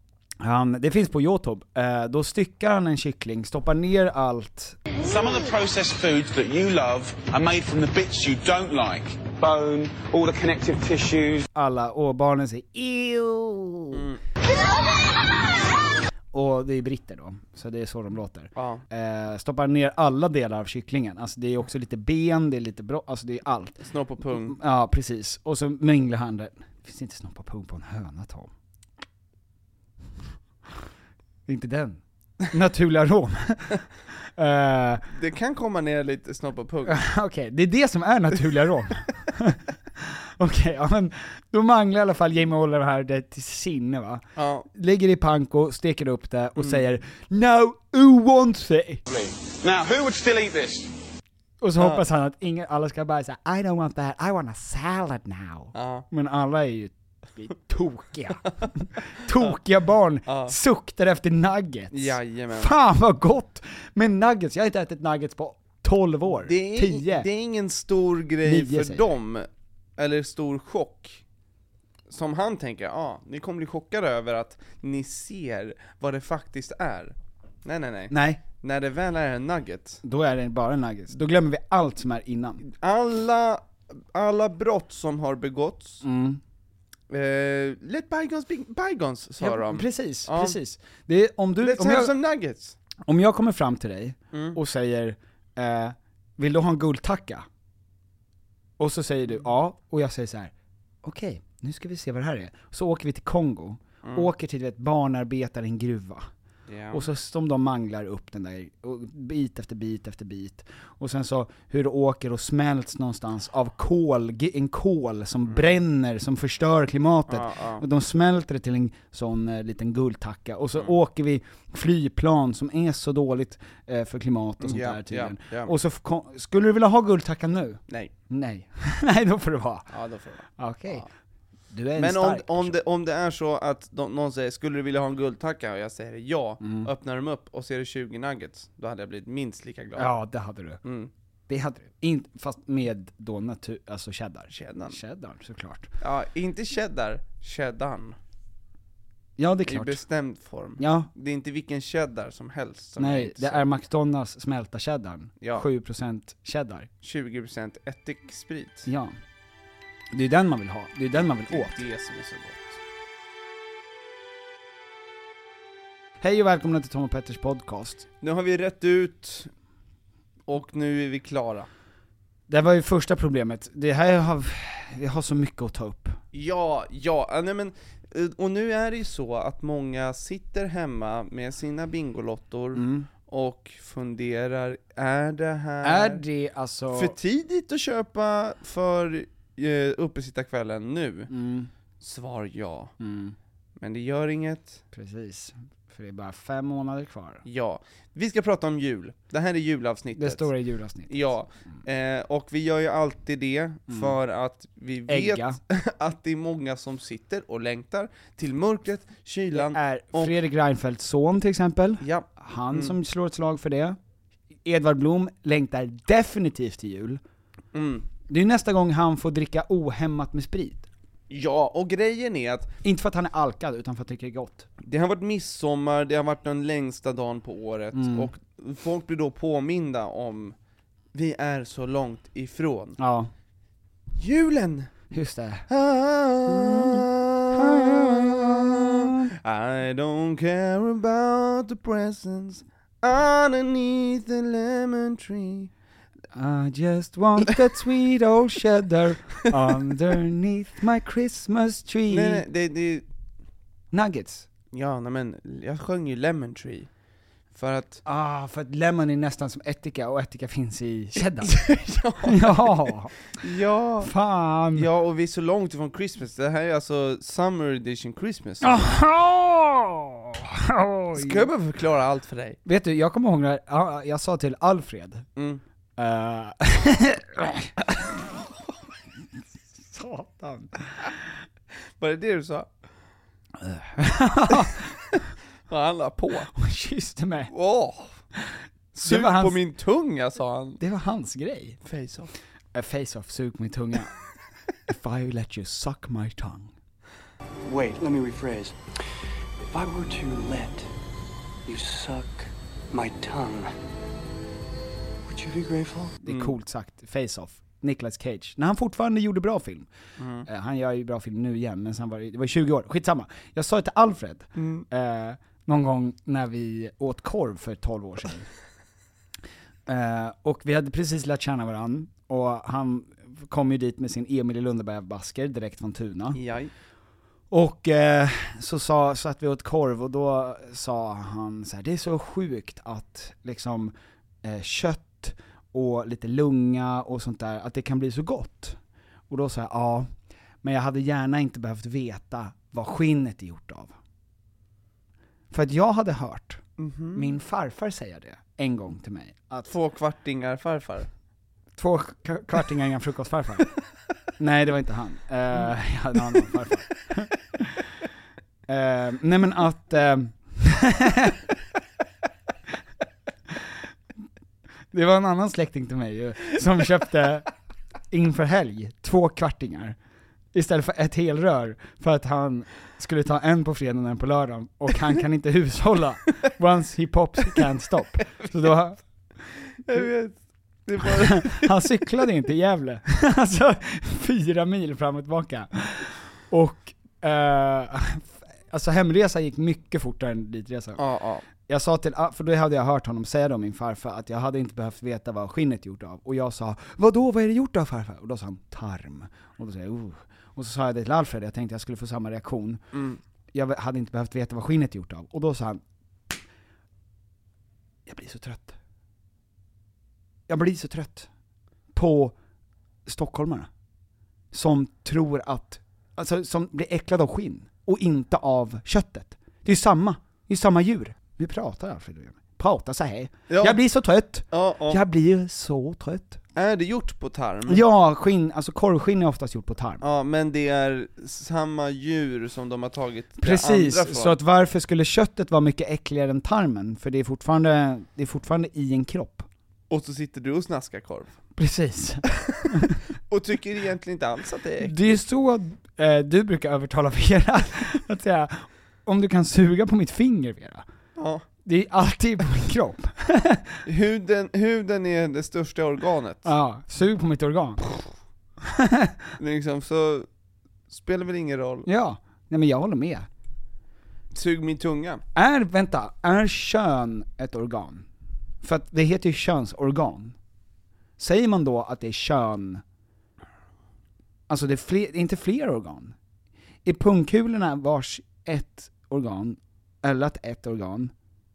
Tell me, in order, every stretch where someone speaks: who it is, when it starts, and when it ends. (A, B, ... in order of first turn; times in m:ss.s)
0:00.4-0:04.8 A
0:05.0-0:11.5 B
0:11.5-0:14.0 A
0:13.9-0:14.2 C
0:16.3-0:28.5 A
0:18.6-0:18.8 C
0:23.8-0:24.6 C
0:31.4-0:33.8 A
0:34.4-0:35.0 A
0:35.1-0:37.0 C
0:36.8-0:49.0 A
0:44.4-0:44.7 C
0:49.1-0:50.9 B
0:51.6-1:07.3 A
0:51.8-0:52.0 C
0:55.7-0:56.0 C
1:00.2-1:00.5 C
1:01.9-1:02.7 C
1:06.4-1:09.5 C
1:08.4-1:09.1 A
1:10.0-1:11.2 C
1:12.1-1:20.0 C
1:18.1-1:18.4 A
1:20.0-1:22.6 A
1:22.6-1:26.0 C
1:26.0-1:26.4 A
1:27.1-1:30.6 C
1:29.4-1:32.1 A
1:31.6-1:32.8 C
1:33.0-1:37.4 A
1:34.3-1:34.6 C
1:38.8-1:40.5 A
1:41.0-1:46.3 A
1:44.0-1:44.3 C
1:46.7-1:47.1 C
1:46.9-2:09.9 A
1:57.3-1:57.8 C
2:04.6-2:05.7 C
2:09.9-2:11.1 C
2:10.6-2:11.0 A
2:11.7-2:12.8 A
2:12.0-2:20.1 C
2:16.6-2:16.9 A
2:20.0-2:20.8 A
2:20.8-2:21.1 C
2:21.5-2:25.9 A
2:24.5-2:25.0 C
2:26.0-2:28.2 C
2:29.4-2:30.0 A
2:29.6-2:33.6 C
2:30.8-2:31.1 A
2:33.0-2:36.9 A
2:37.0-2:38.9 C
2:38.9-2:39.1 A
2:40.1-2:41.8 A
2:41.5-2:42.8 C
2:46.2-2:48.0 A
2:48.2-2:49.5 C
2:50.5-2:51.7 C
2:52.5-2:56.2 A
2:56.3-3:06.2 C
3:02.7-3:03.1 A
3:05.8-3:07.2 A
3:06.9-3:11.3 C
3:11.3-3:11.7 A
3:12.0-3:12.9 C
3:13.0-3:13.4 A
3:13.8-3:14.8 C
3:14.9-3:17.4 A
3:17.4-3:20.5 C
3:20.2-3:21.2 A
3:21.1-3:30.3 C
3:23.9-3:24.1 A
3:25.1-3:25.6 A
3:29.5-3:34.0 A
3:32.0-3:32.9 C
3:34.6-3:37.2 A
3:37.7-3:38.0 C
3:38.3-3:40.9 A
3:41.3-3:42.7 C
3:42.8-3:44.7 A
3:44.8-3:50.5 C
3:47.9-3:48.3 A
3:51.1-3:53.0 C
3:53.0-3:53.3 A
3:54.2-3:54.9 C
3:55.1-3:55.7 A
3:55.7-4:05.7 C
3:56.4-3:59.3 A
4:06.3-4:12.4 A
4:12.1-4:13.0 C
4:13.9-4:14.5 A
4:14.7-4:16.9 C
4:17.5-4:18.0 C
4:18.0-4:21.6 A
4:21.4-4:24.1 C
4:22.2-4:23.1 A
4:24.0-4:24.9 A
4:24.7-4:28.9 C
4:28.6-4:31.5 A
4:31.1-4:32.6 C
4:32.6-4:35.2 A
4:35.4-4:35.6 C
4:36.0-4:37.7 A
4:39.8-4:40.7 A
4:42.0-4:42.7 C
4:43.6-4:44.9 A
4:44.6-4:46.5 C
4:46.6-4:47.5 A
4:47.5-4:48.2 C
4:48.9-4:49.6 A
4:49.0-4:50.8 C
4:50.8-4:51.8 A
4:51.8-4:52.3 C
4:52.7-4:54.1 A
4:54.9-4:56.7 A
4:57.6-4:58.8 D
4:59.6-5:00.9 D
5:01.6-5:03.7 D
5:05.2-5:06.2 D
5:06.2-5:09.9 A
5:06.3-5:06.5 C
5:10.2-5:10.4 C
5:10.4-5:18.5 A
5:14.6-5:14.8 C
5:19.9-5:26.4 A
5:26.3-5:26.7 C
5:27.5-5:38.8 A
5:39.3-5:40.1 A
5:40.6-5:43.9 A
5:45.5-5:46.6 A
5:46.8-5:47.4 C
5:47.1-5:49.7 A
5:49.7-5:51.1 C
5:51.8-5:53.7 A
5:54.4-5:57.8 A
5:58.7-6:01.4 A
6:04.9-6:07.5 A
6:08.1-6:10.0 A
6:10.5-6:19.0 A
6:19.8-6:21.7 C
6:21.1-6:31.0 A
6:31.0-6:31.4 C
6:31.7-6:42.8 A
6:42.9-6:43.2 C
6:43.5-6:45.8 A
6:48.0-6:48.8 A
6:50.5-6:51.3 A
6:51.9-6:52.4 A
6:53.0-6:53.7 A
6:54.5-7:06.4 A
7:03.5-7:03.8 C
7:04.5-7:05.0 C
7:06.6-7:07.8 C
7:07.7-7:10.0 A
7:10.0-7:14.4 C
7:13.4-7:19.4 A
7:19.9-7:21.4 C
7:21.6-7:23.0 A
7:23.3-7:25.2 C
7:24.8-7:30.8 A
7:31.2-7:31.4 C
7:31.6-7:33.7 A
7:33.8-7:36.5 C
7:36.4-7:37.8 A
7:38.6-7:39.3 A
7:39.4-7:40.3 C
7:40.9-7:41.9 C
7:41.8-7:43.3 A
7:44.3-7:45.2 C
7:45.3-7:48.0 A
7:48.6-7:50.4 A
7:51.2-7:52.8 A
7:54.5-7:56.1 A
7:56.8-8:01.1 A